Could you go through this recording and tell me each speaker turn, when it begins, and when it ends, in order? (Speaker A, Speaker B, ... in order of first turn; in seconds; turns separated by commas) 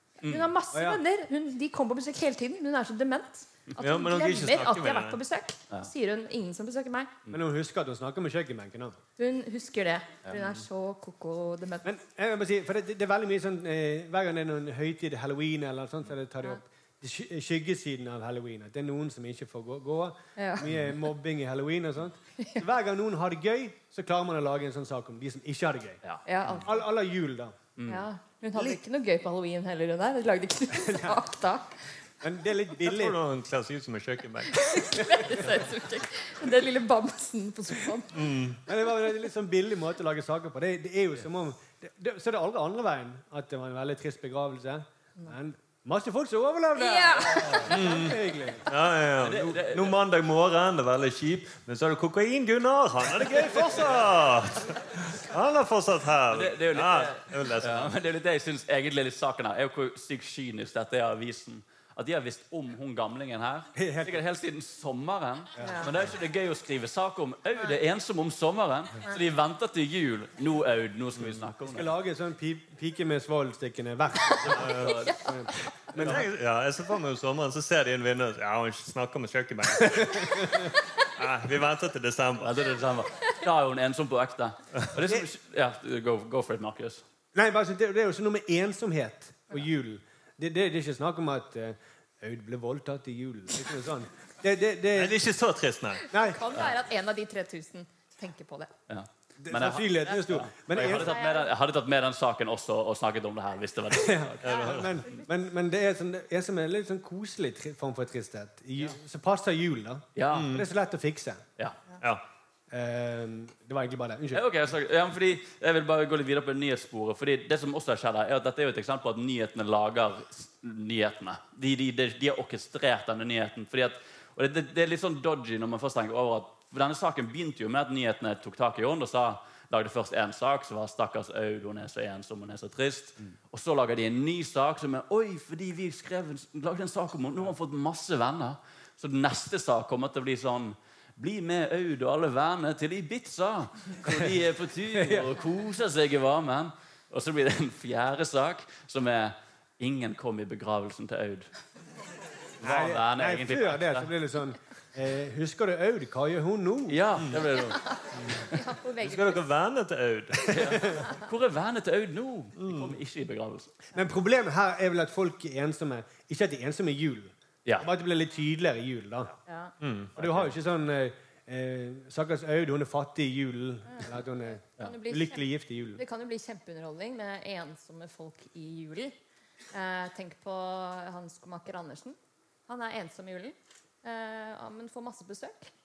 Speaker A: 0.2-0.5, Speaker B: 0.2-7.1, Speaker C: 0.7-1.0, Speaker D: 3.8-5.2, Speaker C: 7.3-9.0, Speaker B: 9.2-11.8, Speaker C: 11.8-26.0, Speaker B: 20.4-20.7, Speaker B: 26.3-26.7, Speaker C: 26.6-27.6, Speaker A: 27.8-28.1, Speaker B: 27.9-31.8, Speaker C: 30.7-31.2, Speaker C: 32.2-33.2, Speaker D: 32.8-34.7, Speaker B: 34.5-38.2, Speaker D: 38.1-38.6, Speaker C: 38.7-48.6, Speaker B: 46.8-47.7, Speaker D: 47.7-57.9, Speaker A: 49.2-50.0, Speaker A: 56.3-71.9, Speaker C: 63.8-64.2, Speaker C: 65.6-66.0, Speaker C: 71.7-76.3, Speaker A: 74.4-76.3, Speaker B: 74.5-75.7, Speaker D: 74.6-75.0, Speaker D: 76.0-80.6, Speaker C: 79.9-80.6, Speaker D: 81.2-82.5, Speaker A: 82.4-87.0, Speaker C: 87.3-95.2, Speaker D: 95.0-96.0, Speaker C: 96.1-96.4, Speaker B: 96.1-98.7, Speaker A: 98.9-104.6, Speaker C: 99.4-101.2, Speaker B: 100.8-101.5, Speaker C: 103.9-111.4, Speaker D: 104.4-104.9, Speaker A: 110.2-110.6, Speaker D: 110.3-110.7, Speaker C: 112.7-114.5, Speaker A: 114.3-151.5, Speaker C: 144.9-145.3, Speaker C: 152.6-157.0, Speaker A: 152.6-154.1, Speaker A: 156.9-157.8, Speaker B: 158.5-159.4, Speaker D: 159.0-160.9, Speaker A: 160.5-163.7, Speaker D: 162.6-162.9, Speaker C: 163.9-169.3, Speaker B: 169.5-169.7, Speaker D: 169.8-170.1, Speaker A: 170.2-170.5, Speaker C: 170.2-176.0, Speaker B: 174.7-175.4, Speaker B: 176.0-179.2, Speaker B: 179.7-182.2, Speaker B: 182.7-185.7